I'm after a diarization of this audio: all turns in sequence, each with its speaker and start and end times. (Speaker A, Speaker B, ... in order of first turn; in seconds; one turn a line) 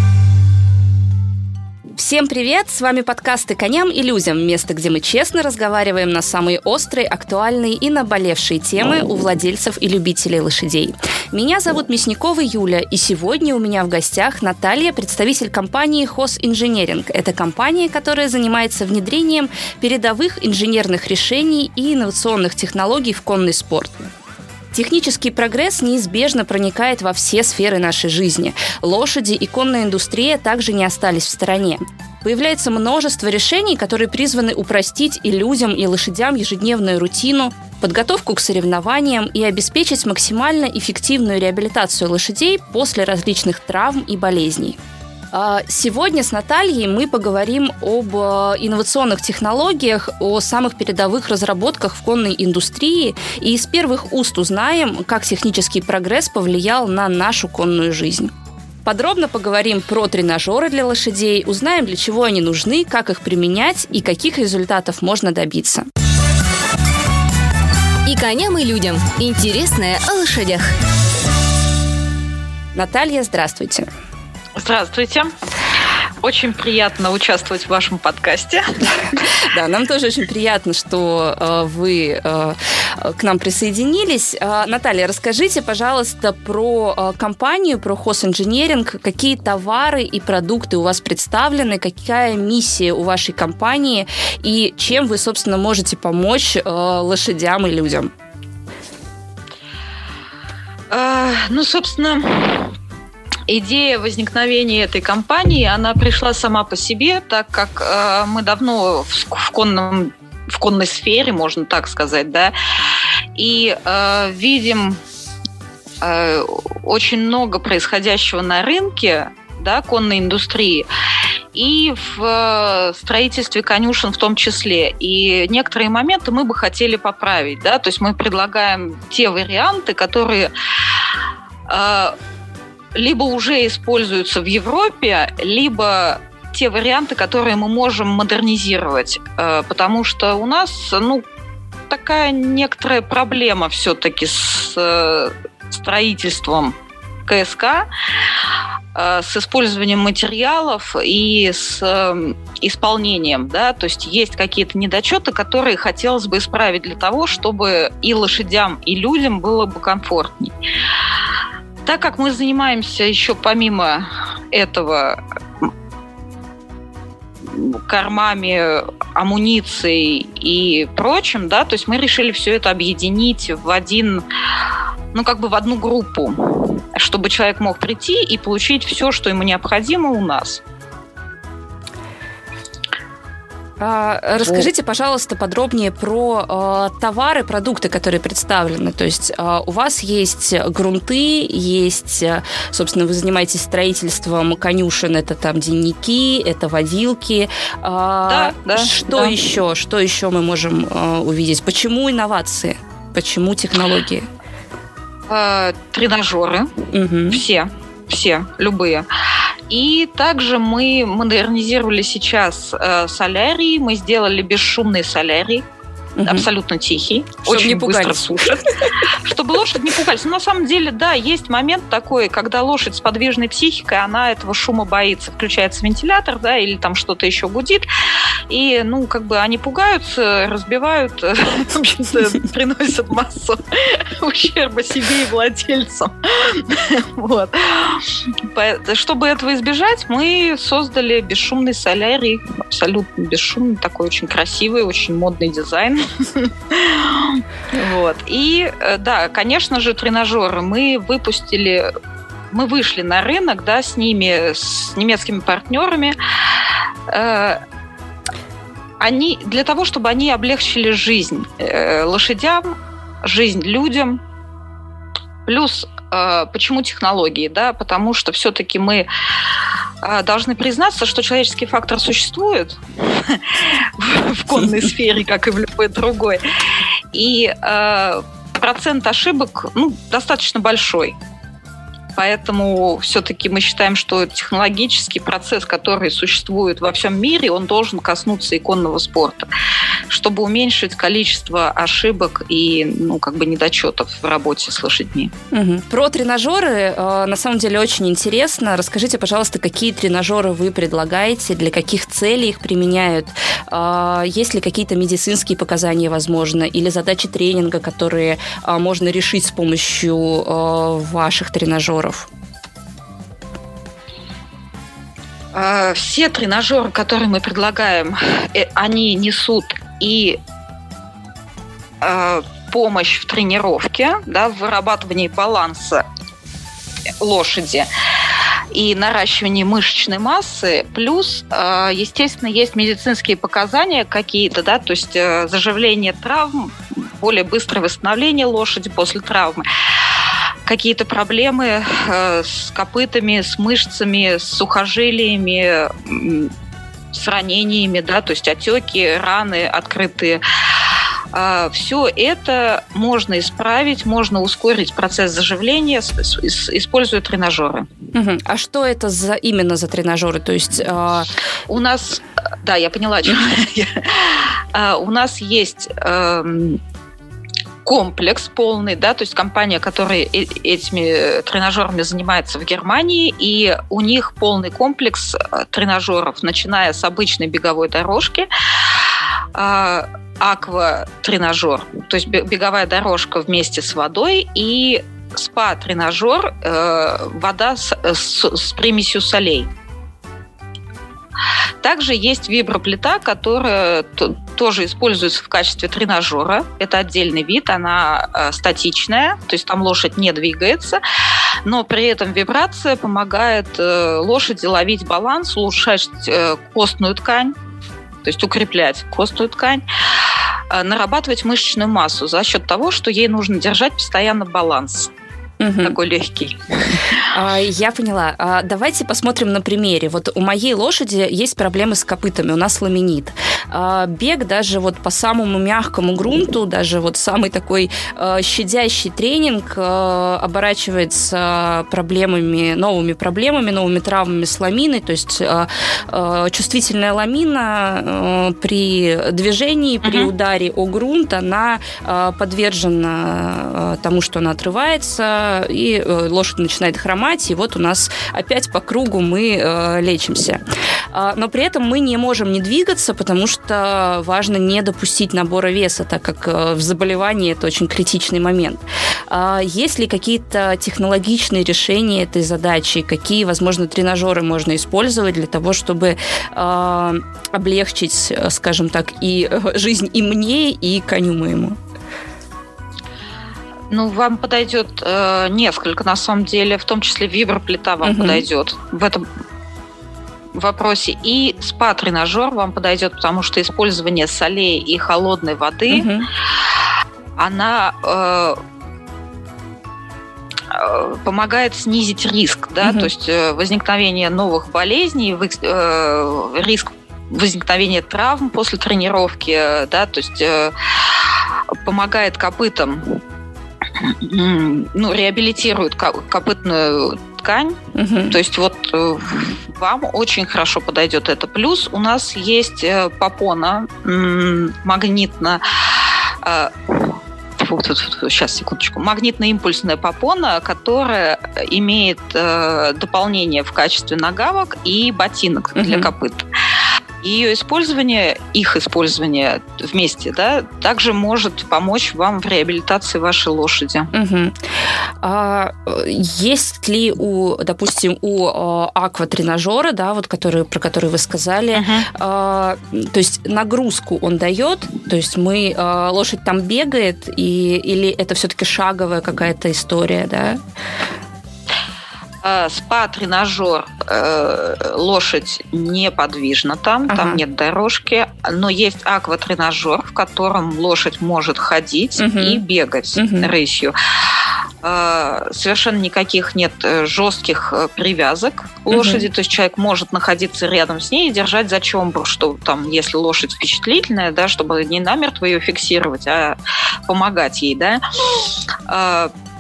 Speaker A: 2.0-24.1
Speaker A: 24.7-44.8
Speaker A: 45.3-58.3
Speaker A: 58.9-65.9
Speaker B: 68.0-70.7
Speaker A: 72.7-73.9
Speaker C: 74.6-75.3
Speaker C: 76.2-78.6
Speaker A: 79.2-98.1
Speaker C: 100.9-102.7
Speaker C: 103.5-112.5
Speaker C: 113.4-115.0
Speaker C: 116.0-120.9
Speaker C: 121.5-130.5
Speaker C: 131.7-132.2
Speaker C: 132.9-141.2
Speaker C: 141.9-146.8
Speaker C: 147.3-147.9
Speaker C: 148.9-160.6
Speaker C: 161.8-165.7
Speaker C: 167.4-174.2
Speaker C: 175.1-180.6
Speaker A: 183.8-204.3
Speaker C: 184.4-184.7
Speaker C: 198.3-199.4
Speaker C: 205.3-209.1
Speaker A: 206.9-207.4
Speaker C: 209.7-215.7
Speaker A: 216.2-216.5
Speaker C: 216.2-227.9
Speaker A: 217.4-218.9
Speaker C: 228.5-251.9
Speaker C: 252.5-256.2
Speaker C: 257.1-257.6
Speaker C: 259.0-264.2
Speaker C: 265.5-269.1
Speaker C: 270.0-276.4
Speaker C: 277.1-281.2
Speaker C: 282.1-289.5
Speaker C: 290.1-295.3
Speaker A: 295.5-312.3
Speaker C: 315.5-320.4
Speaker C: 322.0-326.0
Speaker C: 327.2-327.9
Speaker C: 328.7-339.6
Speaker C: 340.7-346.5
Speaker C: 347.1-350.4
Speaker C: 351.3-357.9
Speaker A: 358.1-361.3
Speaker C: 361.7-366.8
Speaker C: 367.9-378.5
Speaker C: 379.6-389.7
Speaker C: 391.8-401.0
Speaker C: 401.6-407.6
Speaker C: 408.2-409.8
Speaker C: 410.7-415.1
Speaker A: 415.6-416.0
Speaker C: 415.8-417.3
Speaker A: 417.3-450.6
Speaker C: 440.0-440.3
Speaker A: 451.1-471.8
Speaker C: 473.9-479.2
Speaker A: 478.0-478.5
Speaker C: 480.5-486.1
Speaker A: 485.9-486.3
Speaker C: 487.4-488.6
Speaker C: 490.7-501.3
Speaker A: 492.8-493.1
Speaker C: 501.8-503.2
Speaker C: 504.0-526.5
Speaker A: 507.9-508.4
Speaker A: 525.8-526.1
Speaker C: 527.2-534.1
Speaker A: 534.1-534.6
Speaker A: 535.2-550.6
Speaker C: 541.7-542.1
Speaker C: 552.4-564.0
Speaker A: 557.1-557.4
Speaker A: 562.2-562.6
Speaker A: 563.2-563.5
Speaker C: 564.8-579.3
Speaker A: 568.9-569.3